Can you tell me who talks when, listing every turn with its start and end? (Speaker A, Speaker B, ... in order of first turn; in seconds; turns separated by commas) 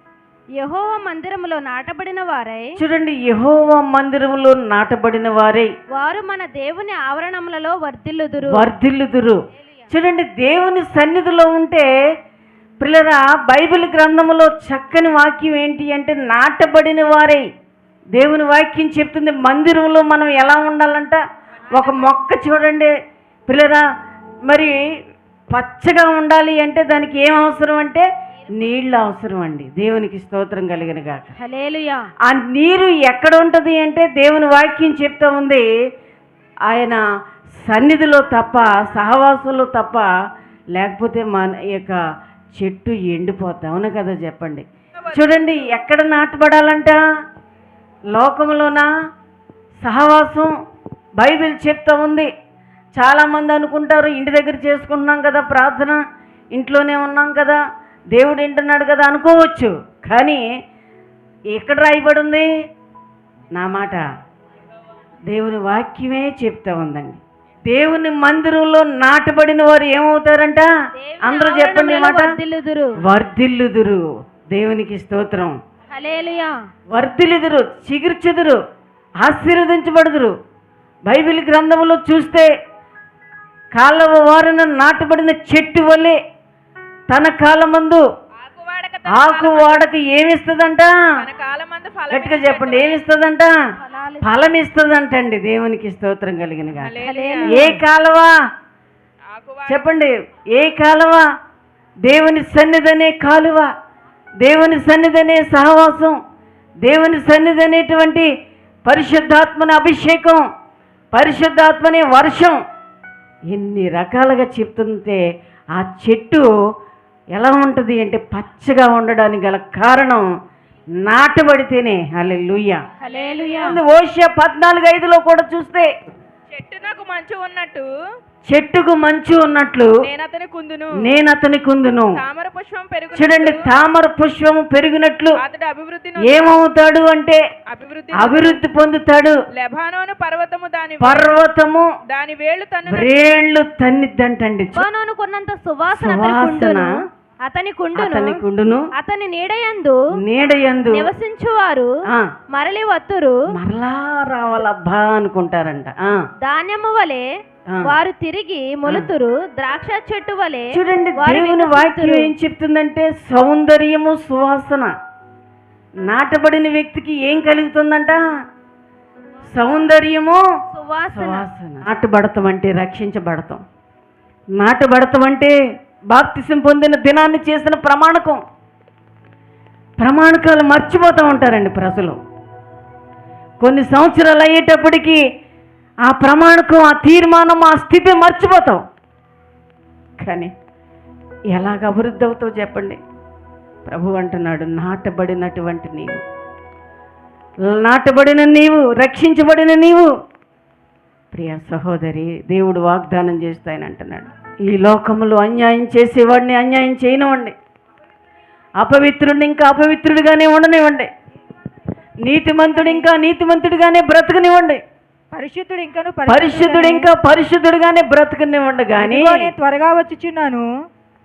Speaker A: 0.6-2.6, Speaker B: 2.8-5.7, Speaker A: 5.9-8.6, Speaker B: 8.4-11.9, Speaker B: 12.8-17.4, Speaker B: 18.1-21.2, Speaker B: 21.7-22.9, Speaker C: 21.7-22.0, Speaker B: 23.5-23.8, Speaker B: 24.5-24.7, Speaker B: 25.5-31.3, Speaker A: 31.4-32.0, Speaker B: 32.2-35.6, Speaker B: 36.7-37.0, Speaker B: 37.6-40.1, Speaker B: 40.7-42.0, Speaker B: 42.5-47.0, Speaker B: 48.1-48.9, Speaker B: 49.8-50.5, Speaker B: 51.2-52.3, Speaker B: 53.0-56.0, Speaker B: 56.5-57.6, Speaker B: 58.1-60.4, Speaker B: 61.5-62.5, Speaker B: 63.5-64.0, Speaker B: 65.3-70.7, Speaker A: 71.0-72.9, Speaker B: 71.2-72.3, Speaker B: 73.0-75.5, Speaker A: 75.9-76.5, Speaker B: 76.9-78.6, Speaker B: 79.2-80.3, Speaker B: 81.0-82.5, Speaker B: 83.7-86.2, Speaker B: 87.1-88.0, Speaker C: 88.4-89.9, Speaker B: 89.1-90.9, Speaker C: 91.2-93.0, Speaker B: 92.1-93.5, Speaker A: 93.8-94.4, Speaker B: 94.2-98.3, Speaker C: 96.7-97.7, Speaker A: 97.0-97.8, Speaker C: 99.3-99.9, Speaker B: 99.7-101.2, Speaker B: 102.0-103.7, Speaker B: 104.4-106.1, Speaker B: 106.8-108.3, Speaker B: 108.8-110.4, Speaker B: 111.1-112.6, Speaker B: 113.5-115.2, Speaker B: 115.8-116.5, Speaker B: 117.3-120.2, Speaker B: 121.0-122.8, Speaker A: 123.0-123.8, Speaker C: 123.1-123.6, Speaker B: 123.6-125.9, Speaker C: 126.5-127.9, Speaker B: 128.4-129.9, Speaker C: 130.0-131.1, Speaker B: 131.0-132.2, Speaker C: 132.2-133.6, Speaker B: 133.1-135.4, Speaker C: 135.4-136.6, Speaker B: 136.2-137.4, Speaker C: 137.7-138.6, Speaker B: 138.1-139.3, Speaker C: 139.6-141.4, Speaker B: 141.0-141.9, Speaker C: 142.1-143.2, Speaker B: 142.9-144.8, Speaker A: 144.7-146.9, Speaker B: 145.9-146.9, Speaker A: 147.4-148.3, Speaker B: 147.9-148.9, Speaker A: 148.9-150.0, Speaker B: 150.2-151.1, Speaker A: 150.9-151.9, Speaker A: 152.5-153.3, Speaker B: 153.5-156.1, Speaker A: 156.4-157.2, Speaker A: 157.9-162.3, Speaker B: 160.7-164.9, Speaker B: 166.1-168.2, Speaker B: 169.5-170.4, Speaker A: 170.7-171.5, Speaker B: 171.1-173.6, Speaker B: 174.6-175.5, Speaker B: 176.1-178.4, Speaker B: 180.0-182.2, Speaker B: 183.6-185.2, Speaker B: 186.1-188.8, Speaker B: 190.2-190.5, Speaker B: 191.5-193.0, Speaker B: 193.8-196.2, Speaker B: 197.7-200.1, Speaker B: 201.3-207.5, Speaker B: 208.8-211.1, Speaker B: 212.2-214.8, Speaker D: 212.7-213.1, Speaker D: 215.3-217.1, Speaker B: 216.3-219.4, Speaker D: 219.0-220.7